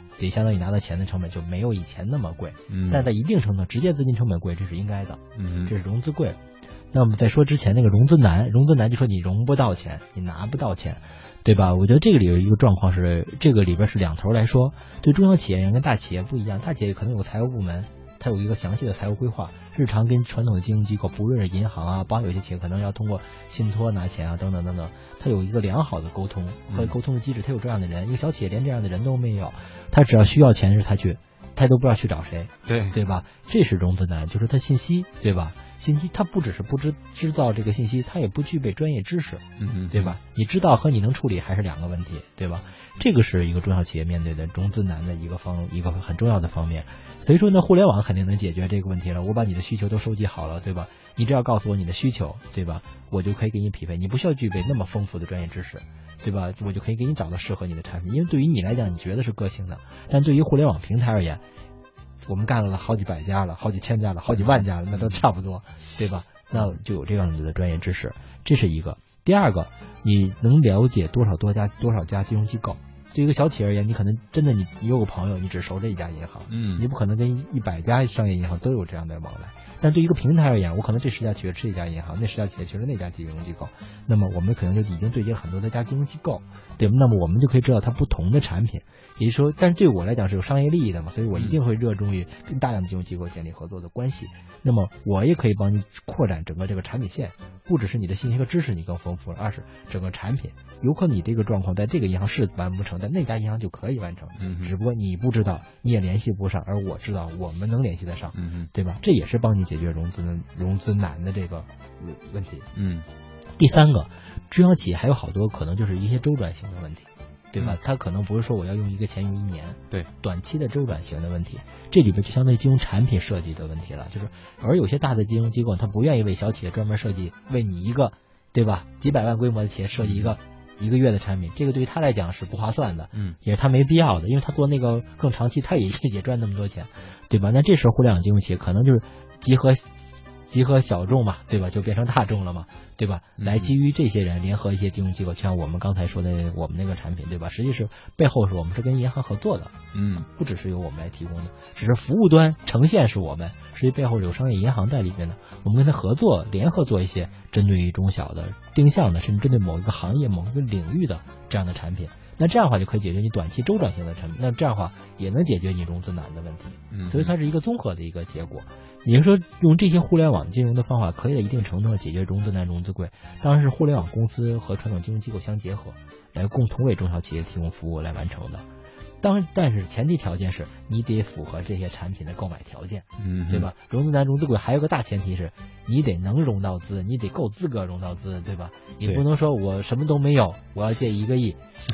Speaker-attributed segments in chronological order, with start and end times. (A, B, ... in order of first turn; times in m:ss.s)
0:00.2-0:06.4 A
0:02.7-0:03.1 B
0:05.4-0:05.7 B
0:06.9-1:01.4 A
0:26.7-0:26.9 B
0:32.6-0:33.0 B
0:39.6-0:40.2 B
1:02.2-1:52.7 A
1:04.3-1:05.2 B
1:16.5-1:16.8 B
1:44.4-1:44.7 B
1:48.3-1:48.7 B
1:52.7-1:53.0 B
1:53.6-2:29.7 A
2:10.0-2:10.3 B
2:23.4-2:23.7 B
2:29.9-2:30.3 B
2:30.4-2:58.6 A
2:46.9-2:47.3 B
2:59.2-3:11.6 A
3:03.2-3:03.7 B